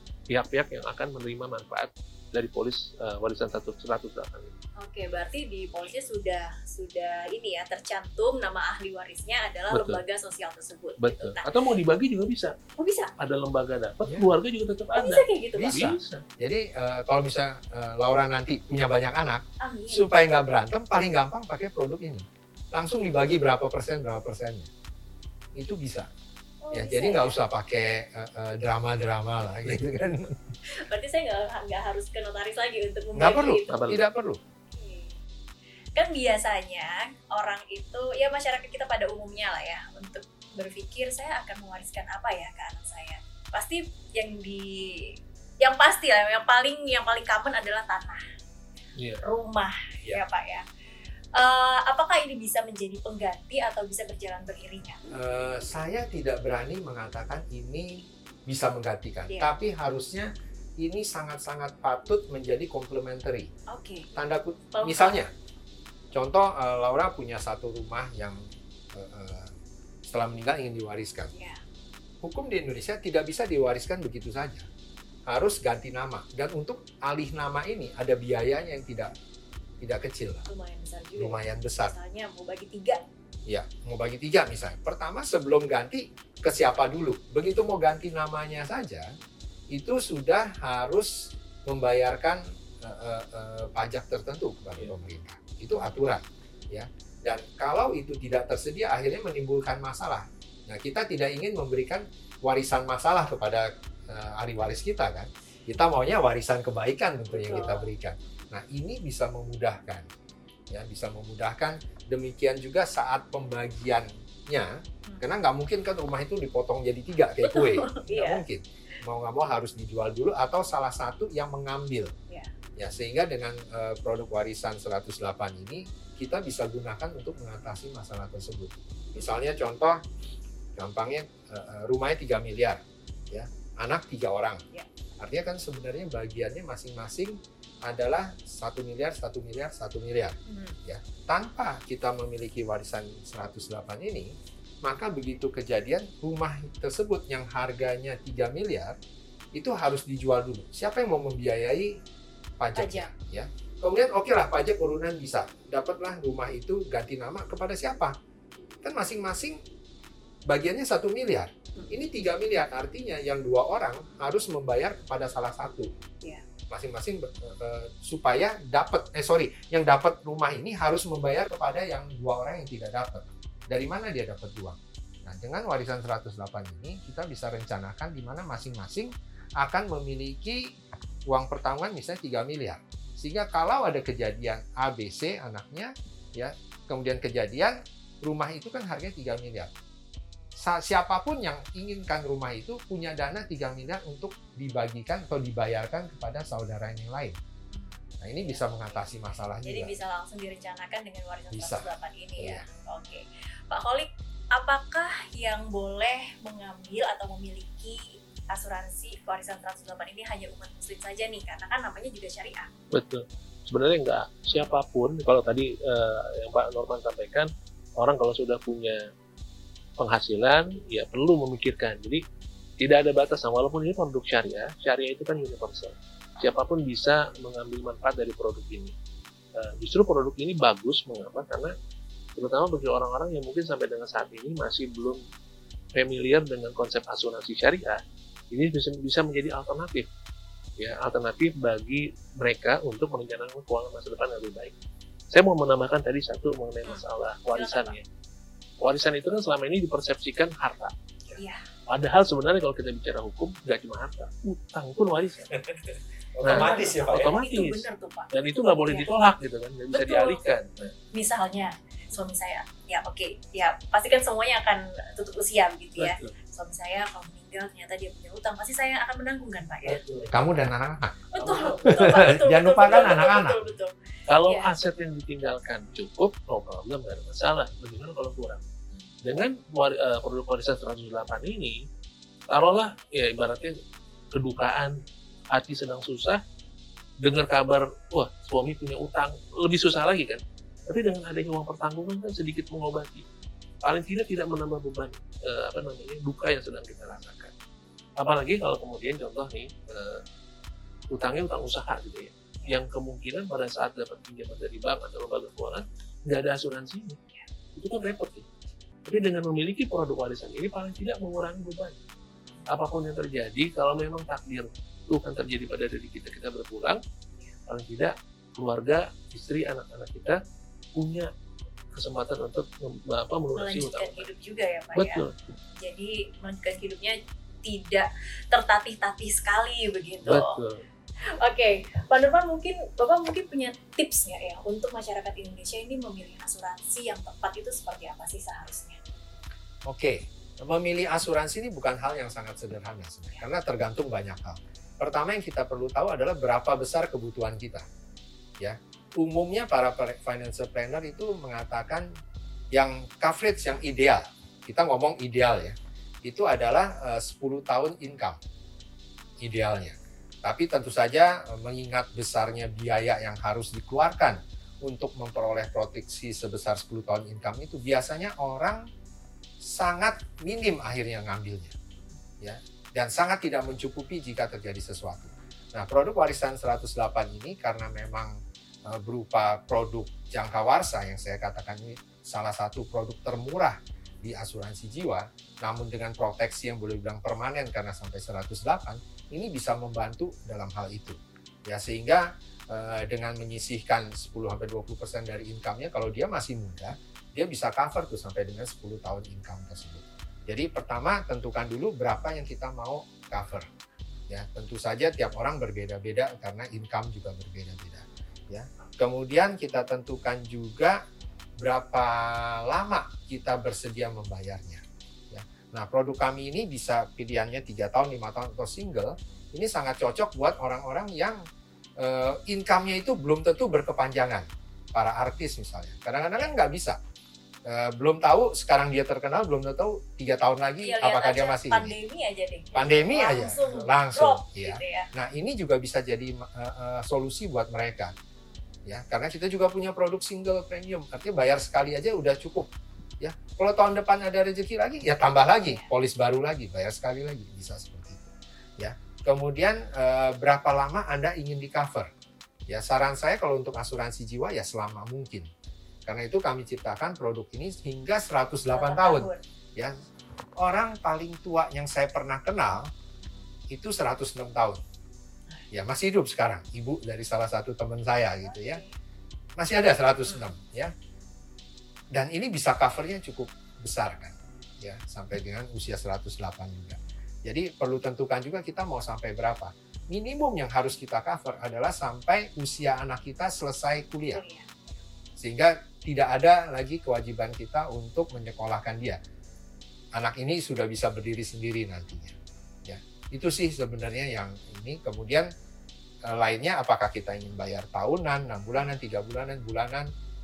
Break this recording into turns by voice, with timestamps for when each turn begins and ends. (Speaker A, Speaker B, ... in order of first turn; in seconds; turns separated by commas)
Speaker A: 0.3-4.5, Speaker B: 4.8-11.5, Speaker A: 9.7-10.0, Speaker A: 11.0-12.5, Speaker B: 12.8-13.1, Speaker A: 13.2-16.2, Speaker C: 14.0-14.3, Speaker B: 14.9-15.8, Speaker C: 15.6-24.7, Speaker B: 19.6-20.2, Speaker C: 25.5-26.1, Speaker B: 26.6-27.4, Speaker C: 26.7-30.4, Speaker B: 30.8-33.8, Speaker C: 33.1-34.4, Speaker A: 33.7-34.0, Speaker B: 34.7-35.2, Speaker B: 36.0-48.2, Speaker B: 49.2-50.6, Speaker B: 51.3-55.0, Speaker C: 55.1-63.5, Speaker B: 59.3-59.5, Speaker B: 63.7-64.1, Speaker C: 64.2-65.3, Speaker B: 64.7-65.2, Speaker C: 66.1-69.5, Speaker C: 70.0-71.3, Speaker B: 71.3-71.6, Speaker C: 72.2-74.7, Speaker C: 75.3-79.1, Speaker C: 79.8-80.4, Speaker B: 80.5-83.0, Speaker C: 81.2-81.9, Speaker C: 83.5-89.1, Speaker C: 89.7-110.0, Speaker B: 107.3-107.9, Speaker C: 110.7-122.1, Speaker B: 117.4-118.4, Speaker C: 122.8-130.0, Speaker C: 130.8-134.6, Speaker C: 135.2-148.9, Speaker B: 140.4-140.8, Speaker C: 149.5-152.0, Speaker C: 152.6-158.1, Speaker B: 152.7-153.1, Speaker C: 158.8-159.6, Speaker C: 160.5-165.9, Speaker C: 166.7-180.7, Speaker C: 181.3-189.7, Speaker C: 190.6-197.3, Speaker B: 197.7-199.0, Speaker C: 198.2-199.9, Speaker B: 199.6-212.7, Speaker C: 201.5-201.8, Speaker C: 202.4-202.6, Speaker A: 212.9-219.0, Speaker B: 214.5-214.7, Speaker A: 220.0-222.2, Speaker A: 222.8-228.9, Speaker A: 229.6-231.7, Speaker A: 232.3-235.2, Speaker A: 235.9-240.1, Speaker A: 240.8-244.7, Speaker A: 245.3-248.0, Speaker B: 246.9-248.0, Speaker A: 248.8-250.9, Speaker B: 251.4-251.6, Speaker A: 251.9-255.6, Speaker C: 256.3-257.3, Speaker A: 256.4-260.9, Speaker B: 256.4-259.1, Speaker B: 259.9-270.0, Speaker A: 266.0-266.3, Speaker A: 269.9-270.4, Speaker C: 270.3-271.2, Speaker B: 271.3-273.9, Speaker A: 271.4-272.1, Speaker C: 271.8-273.6, Speaker A: 274.3-278.6, Speaker B: 274.4-274.7, Speaker A: 279.2-281.8, Speaker A: 282.5-283.8, Speaker A: 284.3-284.9, Speaker A: 285.5-286.4, Speaker A: 287.2-293.2, Speaker A: 293.8-297.5, Speaker A: 298.2-300.2, Speaker A: 301.1-307.2, Speaker A: 307.8-308.4, Speaker A: 309.1-312.0, Speaker A: 312.7-317.0, Speaker A: 317.7-320.4, Speaker A: 321.0-321.3, Speaker A: 321.9-324.2, Speaker B: 323.6-325.2, Speaker A: 324.9-325.3, Speaker B: 325.8-330.6, Speaker A: 330.2-330.8, Speaker B: 331.4-339.0, Speaker C: 339.9-347.9, Speaker C: 348.6-352.1, Speaker C: 352.7-358.4, Speaker C: 359.4-368.8, Speaker C: 369.6-371.7, Speaker C: 372.4-403.7, Speaker C: 404.3-411.0, Speaker C: 411.6-421.4, Speaker C: 422.0-427.0, Speaker C: 427.6-431.9, Speaker B: 430.8-435.1, Speaker C: 432.7-438.1, Speaker C: 438.9-452.1, Speaker C: 452.7-455.5, Speaker C: 456.1-460.0, Speaker B: 458.7-459.4, Speaker C: 460.6-462.9, Speaker C: 463.7-464.8, Speaker C: 465.7-468.8, Speaker B: 468.4-468.9, Speaker C: 469.6-470.9, Speaker C: 472.1-484.4, Speaker B: 484.3-484.9, Speaker C: 485.4-489.2, Speaker C: 490.1-495.5, Speaker C: 496.2-500.1